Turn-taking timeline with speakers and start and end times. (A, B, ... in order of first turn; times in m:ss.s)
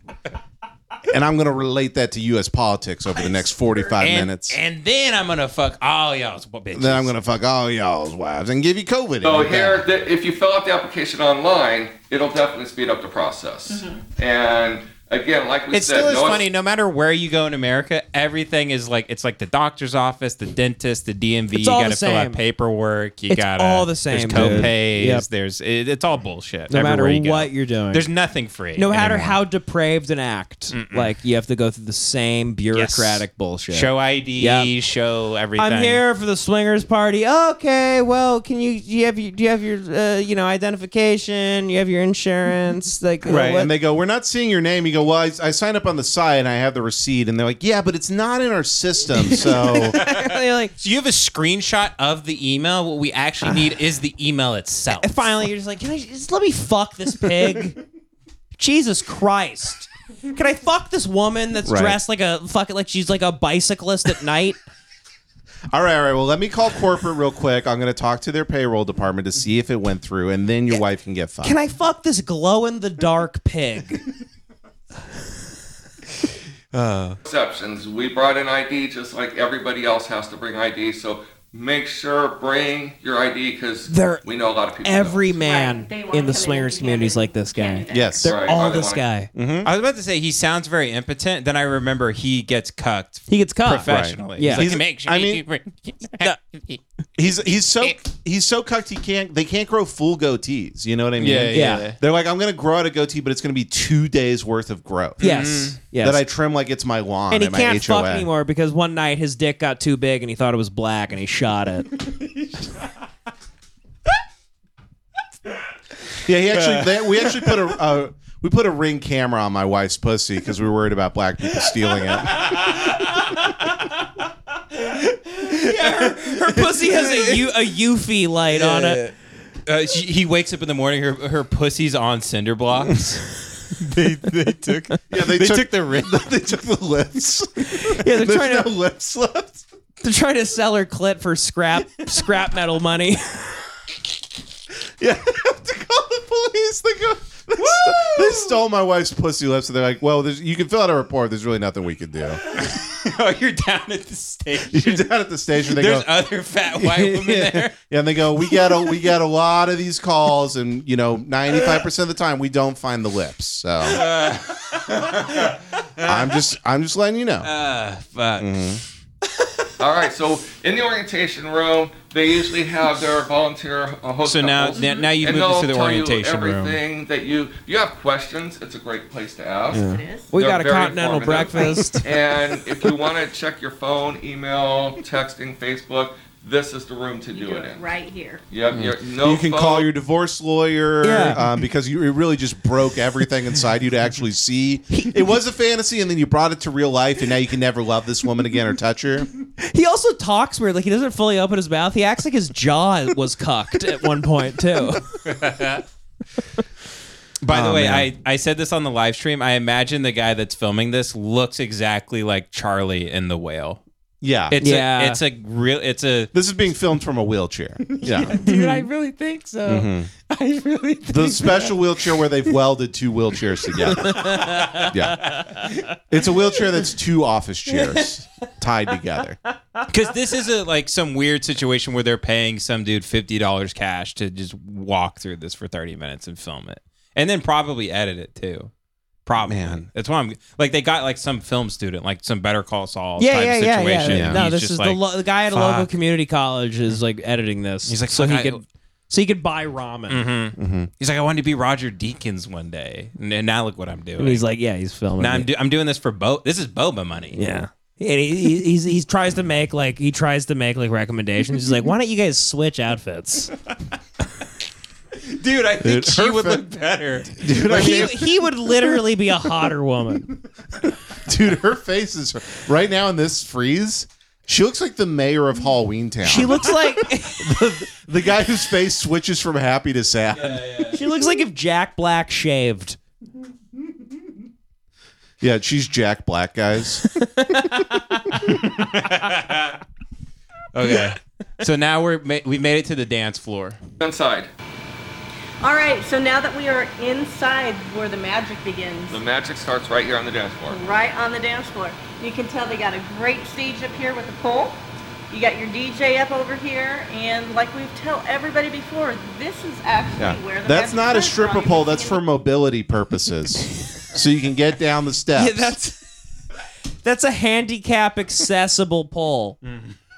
0:01.1-0:04.6 A
0:04.0-0:07.1 B
0:06.7-0:09.9 A
0:09.2-0:16.5 C
0:13.7-0:14.0 D
0:15.7-0:29.4 B
0:21.5-0:22.4 E
0:23.3-0:25.3 E
0:24.3-0:24.7 A
0:26.7-0:28.1 E
0:28.8-0:34.7 E
0:30.7-0:31.1 B
0:32.7-0:36.0 B
0:35.6-0:43.7 E
0:43.3-0:50.0 A
0:49.2-0:50.7 E
0:49.9-0:55.3 B
0:55.0-0:57.8 E
0:58.6-1:04.6 E
1:01.6-1:02.0 A
1:05.7-1:11.6 A
1:11.4-1:14.0 E
1:16.7-1:17.2 B
1:17.2-1:25.3 C
1:23.9-1:24.2 E
1:24.8-1:29.3 E
1:25.4-1:28.3 D
1:27.9-1:28.4 A
1:28.2-1:29.0 C
1:29.3-1:29.7 A
1:29.6-1:37.9 B
1:33.3-1:34.7 E
1:33.8-1:35.4 A
1:37.2-1:45.3 A
1:41.2-1:42.0 B
1:41.5-1:41.9 E
1:45.2-1:45.8 B
1:45.2-1:46.2 E
1:46.0-1:48.3 A
1:47.3-1:52.0 E
1:52.1-1:52.5 B
1:56.2-2:02.6 A
1:56.5-1:57.6 B
2:02.3-2:03.5 B
2:04.8-2:07.5 B
2:05.4-2:09.0 E
2:08.5-2:09.2 B
2:09.7-2:16.2 B
2:15.1-2:19.6 A
2:17.6-2:18.7 E
2:20.0-2:23.6 E
2:25.0-2:32.4 A
2:27.6-2:28.6 B
2:32.4-2:35.1 B
2:34.7-2:36.1 A
2:35.6-2:37.8 B
2:36.8-2:44.0 A
2:43.8-2:46.4 B
2:46.0-2:47.5 A
2:47.4-2:48.7 B
2:48.4-2:48.8 A
2:49.8-3:07.8 C
2:54.2-2:56.8 B
2:54.7-2:55.1 D
2:59.7-3:02.0 E
2:59.8-3:00.3 D
3:01.6-3:01.9 D
3:07.3-3:08.4 D
3:08.5-3:09.9 C
3:08.7-3:19.3 A
3:11.0-3:11.4 E
3:19.6-3:25.1 E
3:25.1-3:25.8 B
3:27.4-3:33.8 B
3:27.5-3:28.1 A
3:34.2-3:34.6 A
3:34.5-3:36.3 B
3:34.6-3:35.2 E
3:36.3-3:38.4 A
3:37.8-3:41.7 B
3:38.4-3:38.9 E
3:39.7-3:40.1 A
3:41.1-3:45.3 A
3:44.0-3:45.7 E
3:44.2-3:45.9 B
3:46.1-3:49.4 A
3:49.9-3:58.7 B
3:59.3-4:05.9 B
3:59.4-3:59.9 A
4:03.2-4:10.3 E
4:04.1-4:04.4 A
4:07.9-4:08.6 B
4:10.1-4:14.4 B
4:10.6-4:10.9 A
4:14.2-4:15.5 E
4:15.2-4:17.4 B
4:17.3-4:23.5 E
4:25.2-4:28.1 B
4:25.8-4:26.7 A
4:27.3-4:28.3 A
4:27.6-4:30.3 E
4:31.2-4:36.8 A
4:36.2-4:37.6 E
4:37.3-4:40.9 A
4:40.3-4:41.0 B
4:40.9-4:43.0 E
4:45.4-4:47.0 A
4:47.1-4:48.5 E
4:48.3-4:49.8 B
4:50.7-4:53.8 B
4:54.0-4:54.5 C
4:55.6-4:59.2 D
4:59.1-5:00.8 C
5:00.7-5:12.2 D
5:10.2-5:15.8 A
5:15.4-5:16.0 E
5:17.0-5:19.6 E
5:19.7-5:20.0 B